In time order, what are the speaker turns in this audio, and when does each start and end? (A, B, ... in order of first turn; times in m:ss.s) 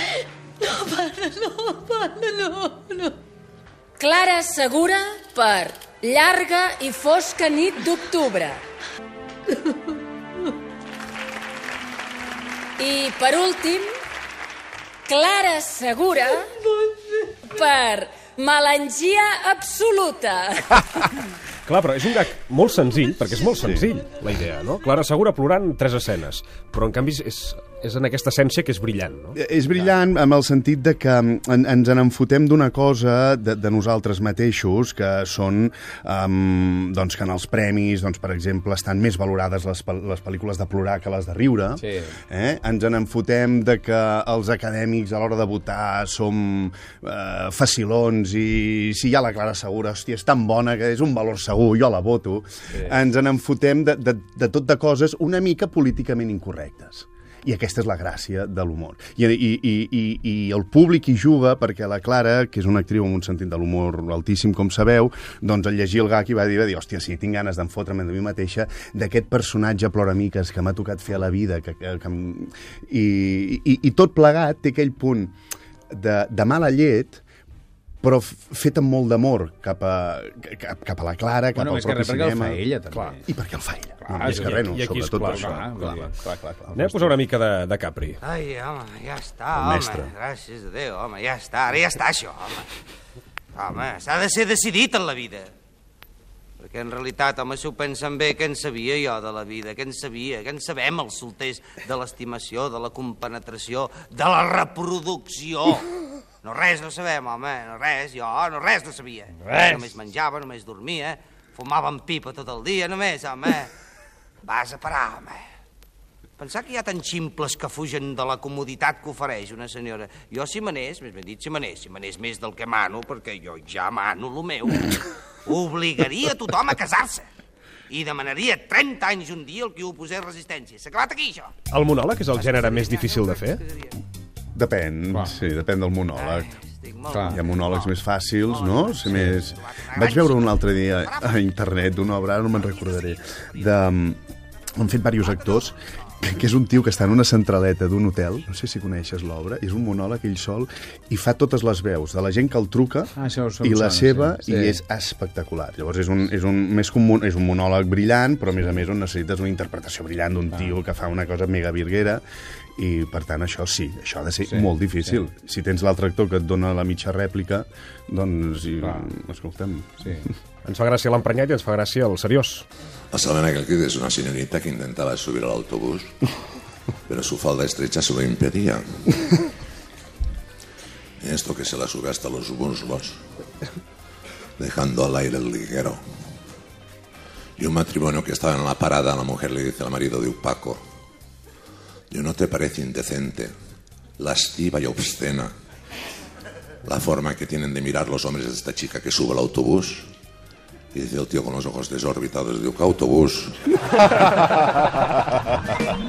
0:00.6-0:03.2 A
0:04.0-0:08.6 A
0:12.8-0:13.9 A
0:15.1-0:16.5 A
0:17.4-0:21.0 A
0:21.7-0:29.4 B
0:23.6-0:23.9 C
0:29.4-1:15.4 C
0:41.8-0:42.1 D
1:15.9-1:17.2 C
1:18.0-1:22.6 C
1:21.6-1:23.2 D
1:22.9-1:23.2 B
1:23.2-1:27.2 C
1:24.0-1:26.1 D
1:24.2-1:26.0 B
1:26.7-1:28.2 B
1:28.2-1:32.7 E
1:29.6-1:30.1 C
1:33.6-1:35.5 E
1:36.6-1:45.9 E
1:46.4-1:53.7 E
1:49.4-1:49.9 D
1:54.4-1:55.4 E
1:56.4-2:07.3 E
2:07.9-2:11.6 E
2:11.7-2:13.6 B
2:12.3-2:13.9 E
2:14.5-2:16.5 C
2:16.2-2:17.9 E
2:17.1-2:17.4 D
2:17.3-2:24.2 C
2:18.4-2:21.4 E
2:19.1-2:19.4 D
2:22.6-2:23.6 E
2:24.8-2:42.2 C
2:33.2-2:34.8 D
2:42.8-2:50.2 C
2:44.5-2:45.2 D
2:48.8-2:49.1 D
2:50.0-2:50.3 D
2:50.6-2:52.7 B
2:53.1-2:56.2 F
2:57.1-2:59.4 F
3:01.2-3:03.2 F
3:04.6-3:06.0 F
3:07.6-3:10.8 F
3:12.1-3:13.5 F
3:14.2-3:15.5 F
3:16.8-3:20.1 F
3:20.9-3:24.0 F
3:24.4-3:25.4 C